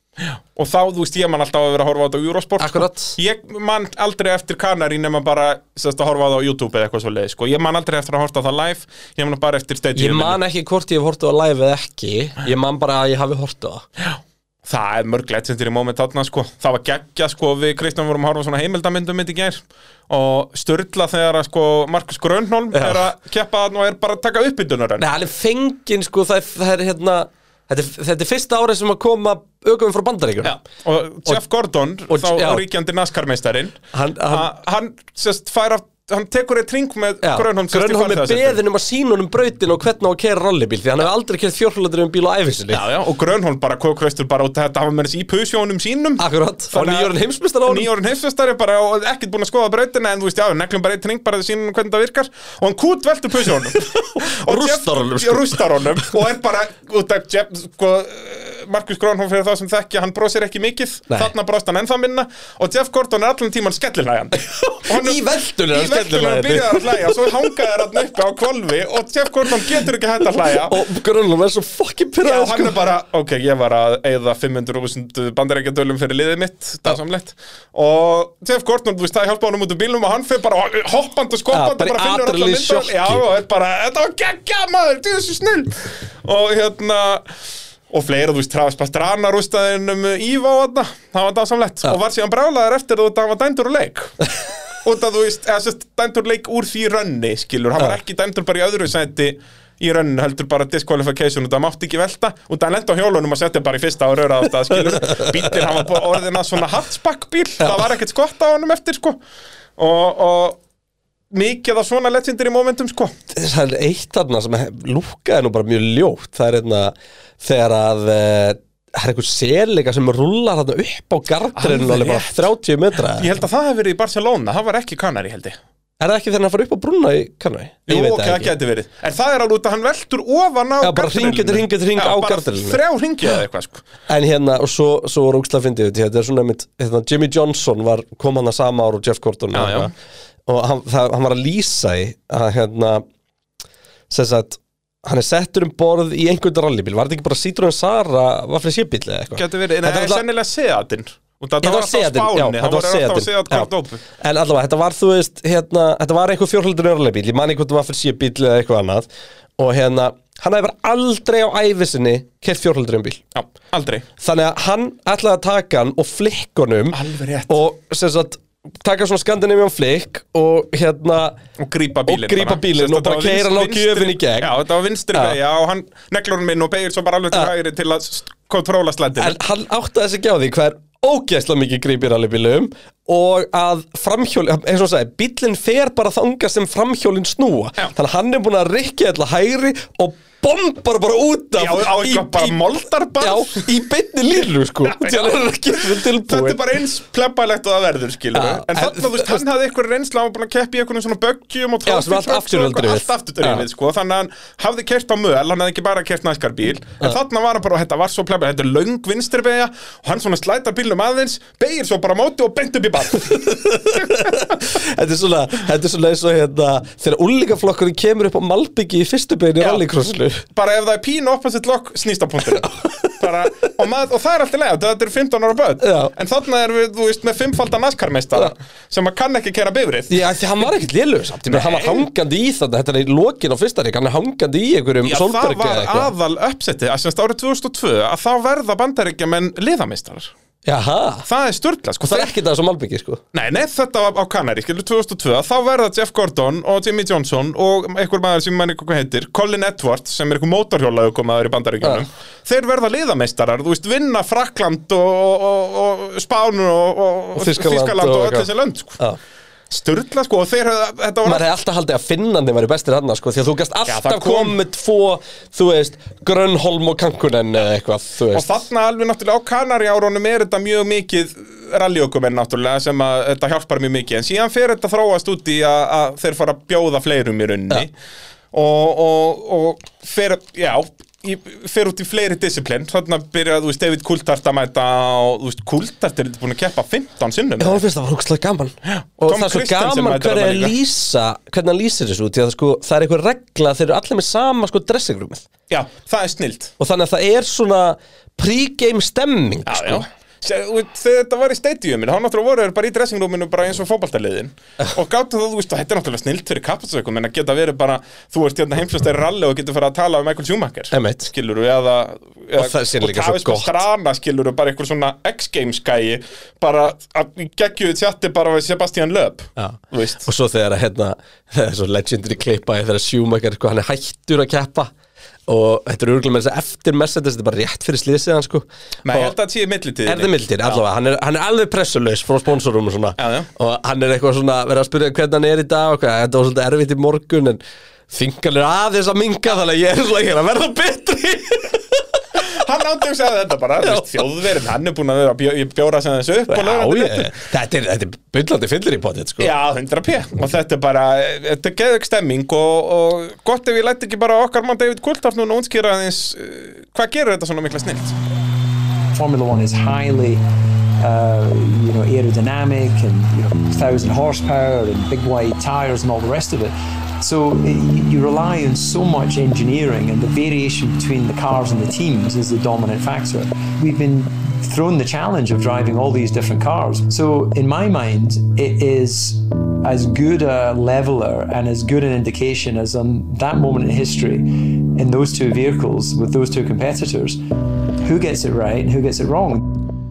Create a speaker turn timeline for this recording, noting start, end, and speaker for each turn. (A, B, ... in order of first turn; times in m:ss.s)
0:00.3-0:10.4 A
0:02.6-0:03.2 B
0:09.9-0:13.8 B
0:14.0-0:25.0 A
0:22.7-0:23.0 B
0:25.0-0:30.6 B
0:30.4-0:38.6 A
0:32.1-0:32.6 B
0:33.9-0:34.5 B
0:37.2-0:42.8 B
0:42.7-1:10.8 A
0:46.2-0:47.9 B
0:53.9-0:56.1 B
1:04.4-1:07.6 B
1:10.4-1:12.8 B
1:12.2-1:27.3 A
1:21.5-1:23.2 B
1:27.9-1:34.3 A
1:34.8-1:49.2 A
1:45.0-1:45.3 B
1:49.8-1:50.6 A
1:51.3-1:53.1 A
1:53.3-2:03.3 B
2:01.6-2:02.5 A
2:03.1-2:05.6 A
2:06.0-2:08.5 B
2:07.9-2:13.9 A
2:10.8-2:12.8 B
2:14.1-2:19.9 B
2:19.5-2:19.9 A
2:20.4-2:23.0 B
2:24.1-2:30.2 B
2:29.3-2:34.0 A
2:31.6-2:39.1 B
2:39.6-2:43.2 B
2:43.3-2:44.1 A
2:44.2-2:51.4 B
2:46.9-2:47.6 A
2:51.6-2:59.4 A
2:52.0-2:54.5 B
2:59.2-3:12.6 B
3:11.6-3:13.7 A
3:13.2-3:16.6 B
3:14.8-3:34.7 A
3:18.3-3:19.4 B
3:21.9-3:23.6 B
3:33.2-3:40.4 B
3:39.6-3:39.8 A
3:40.5-3:50.7 A
3:45.8-3:46.1 B
3:50.1-3:56.1 B
3:51.4-3:52.1 A
3:55.0-4:00.3 A
4:00.6-4:01.3 B
4:01.2-4:02.4 A
4:02.0-4:03.2 B
4:03.3-4:19.0 A
4:17.3-4:19.2 B
4:19.7-4:21.4 A
4:21.2-4:28.6 B
4:23.9-4:24.6 A
4:28.3-4:37.9 A
4:38.5-4:47.8 A
4:47.6-4:55.5 B
4:48.9-4:50.8 A
4:55.7-4:56.7 A
4:56.8-5:00.1 B
4:59.7-5:20.3 A
5:10.9-5:11.3 B
5:12.6-5:13.8 B
5:19.6-5:24.9 B
5:25.5-5:29.3 B
5:29.0-5:30.8 A
5:30.0-5:42.5 B
5:33.2-5:33.5 A
5:42.4-5:47.3 A
5:43.8-5:44.2 B
5:46.5-5:49.5 B
5:49.4-5:58.2 A
5:59.1-6:00.4 C
6:01.0-6:27.4 C
6:28.0-6:29.6 C